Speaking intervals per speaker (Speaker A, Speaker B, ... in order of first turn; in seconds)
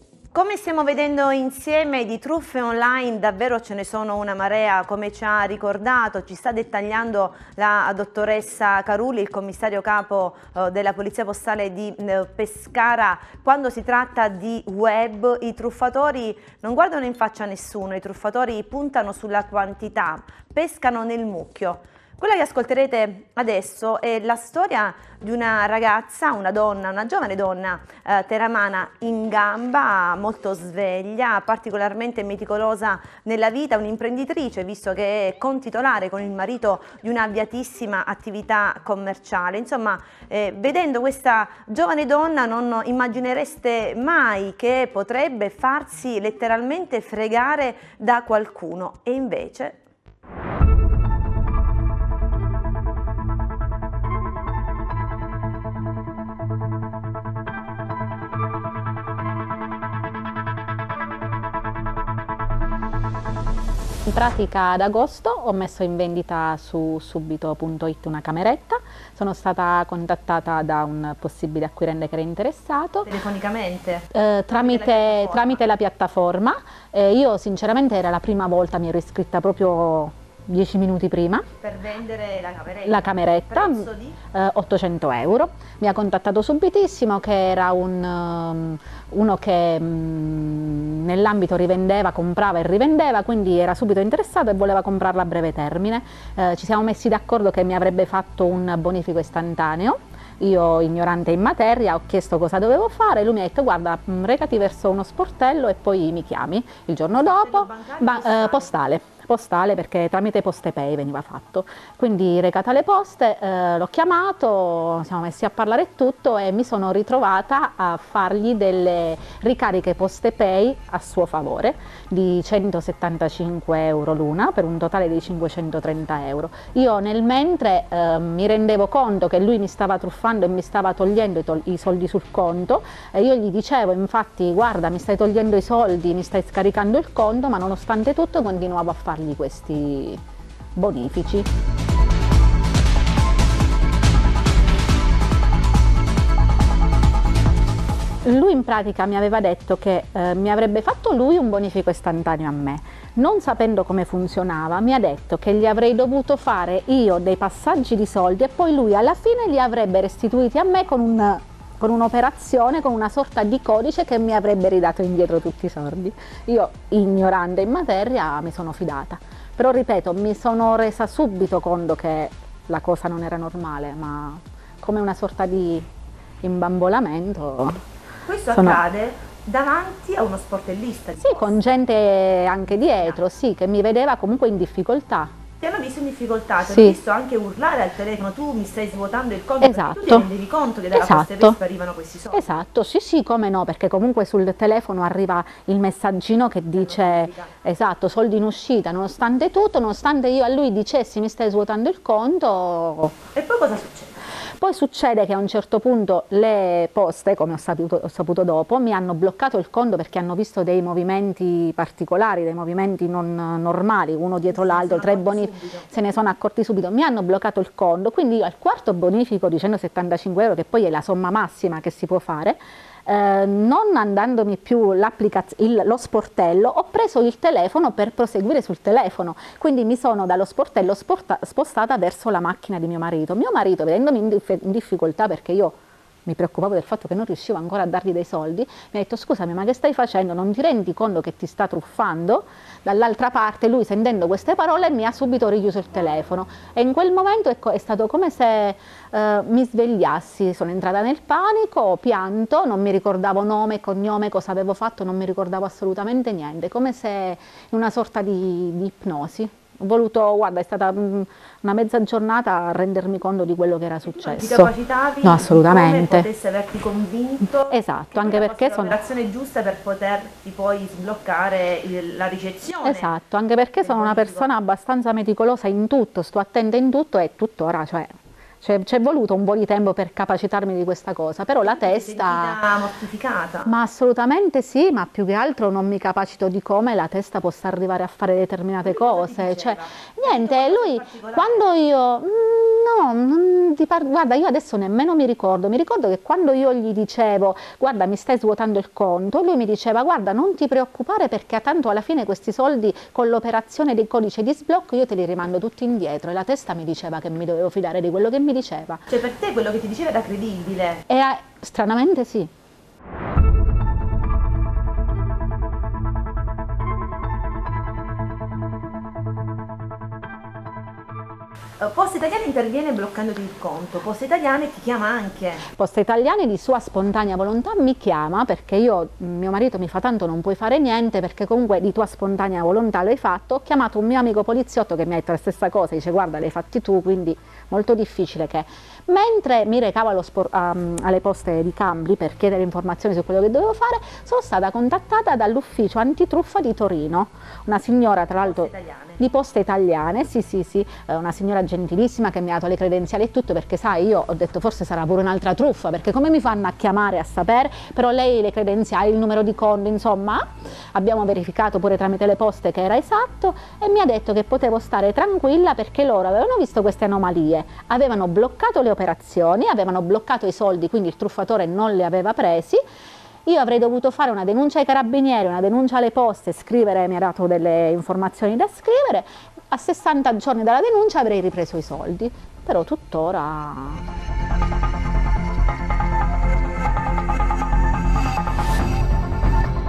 Speaker A: 0.3-49.8, 73.0-74.1, 74.6-75.6, 81.6-84.2, 107.2-108.7, 178.2-181.6, 182.7-183.2, 185.6-192.5, 196.8-197.5, 203.3-204.2, 214.5-215.9, 264.0-273.1, 273.8-274.5, 281.6-283.7, 288.8-291.6, 309.1-311.0, 321.8-325.6, 348.4-349.2
Speaker B: 64.1-73.1, 74.1-81.5, 82.8-140.2, 140.8-141.5, 148.2-175.9, 176.4-177.8, 178.5-178.8, 181.2-185.3, 186.7-186.9, 189.6-190.3, 190.9-191.6, 192.3-203.1, 204.6-235.7, 236.2-264.7, 265.2-266.3, 267.7-268.9, 272.8-282.6, 283.6-309.1, 311.1-312.5, 325.7-372.8, 373.5-384.0